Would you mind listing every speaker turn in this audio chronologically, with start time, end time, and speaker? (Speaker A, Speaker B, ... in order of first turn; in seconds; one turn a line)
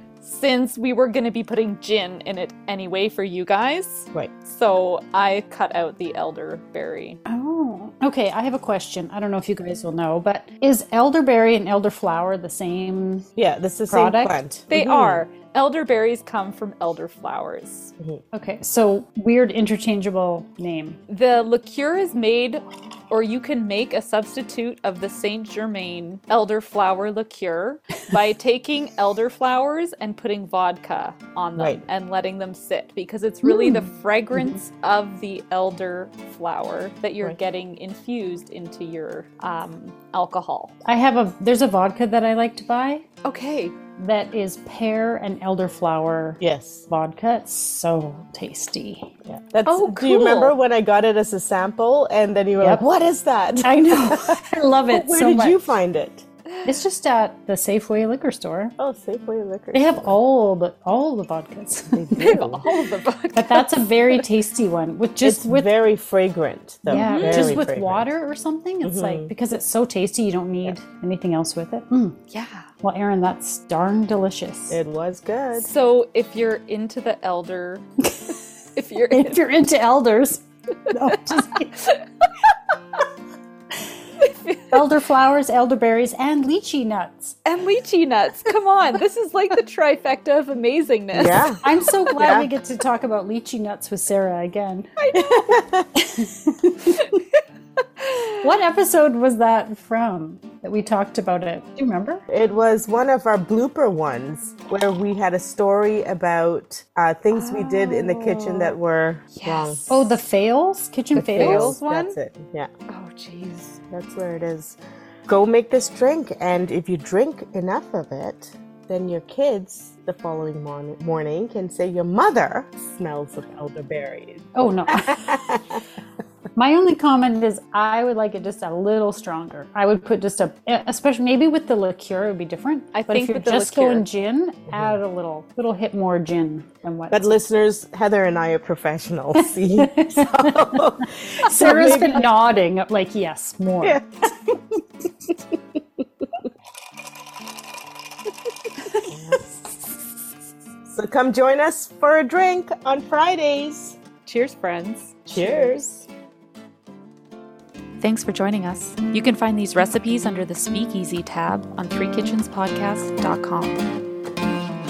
Speaker A: 0.2-7.2
Speaker B: 7.3-13.2
Speaker C: 13.4-15.2
Speaker B: 13.9-14.3
Speaker A: 14.7-17.9
Speaker B: 18.3-21.0
Speaker A: 21.1-40.7
Speaker C: 31.6-31.8
Speaker B: 33.4-34.6
Speaker B: 40.8-43.0
Speaker A: 43.2-43.7
Speaker B: 44.0-49.1
Speaker C: 46.4-46.9
Speaker C: 49.2-56.2
Speaker A: 49.6-50.6
Speaker B: 52.6-52.8
Speaker B: 53.6-55.8
Speaker B: 56.6-58.7
Speaker C: 58.8-60.2
Speaker B: 59.7-62.4
Speaker C: 61.9-62.6
Speaker A: 62.2-64.2
Speaker B: 63.3-65.7
Speaker C: 65.2-68.1
Speaker B: 66.9-72.2
Speaker A: 66.9-67.6
Speaker C: 68.8-69.3
Speaker A: 72.3-72.7
Speaker B: 72.8-74.8
Speaker C: 74.7-75.7
Speaker A: 75.5-77.8
Speaker A: 78.7-79.4
Speaker B: 79.1-81.7
Speaker A: 81.1-82.3
Speaker A: 84.2-84.8
Speaker B: 84.7-87.3
Speaker A: 87.5-91.6
Speaker C: 91.1-91.6
Speaker B: 91.6-95.0
Speaker C: 92.2-92.5
Speaker A: 95.0-95.6
Speaker C: 95.5-95.8
Speaker B: 95.9-97.0
Speaker A: 98.0-98.3
Speaker B: 98.4-102.2
Speaker C: 102.3-109.9
Speaker A: 107.3-108.8
Speaker A: 109.3-110.2
Speaker B: 109.9-111.7
Speaker A: 111.1-112.2
Speaker C: 111.1-112.7
Speaker A: 112.9-113.8
Speaker C: 113.9-125.8
Speaker B: 124.5-125.4
Speaker B: 126.5-137.3
Speaker A: 132.9-134.1
Speaker C: 137.1-142.3
Speaker B: 139.4-140.8
Speaker B: 141.4-144.5
Speaker C: 149.1-149.4
Speaker C: 150.9-154.0
Speaker A: 154.2-155.8
Speaker C: 155.3-156.1
Speaker A: 158.0-163.8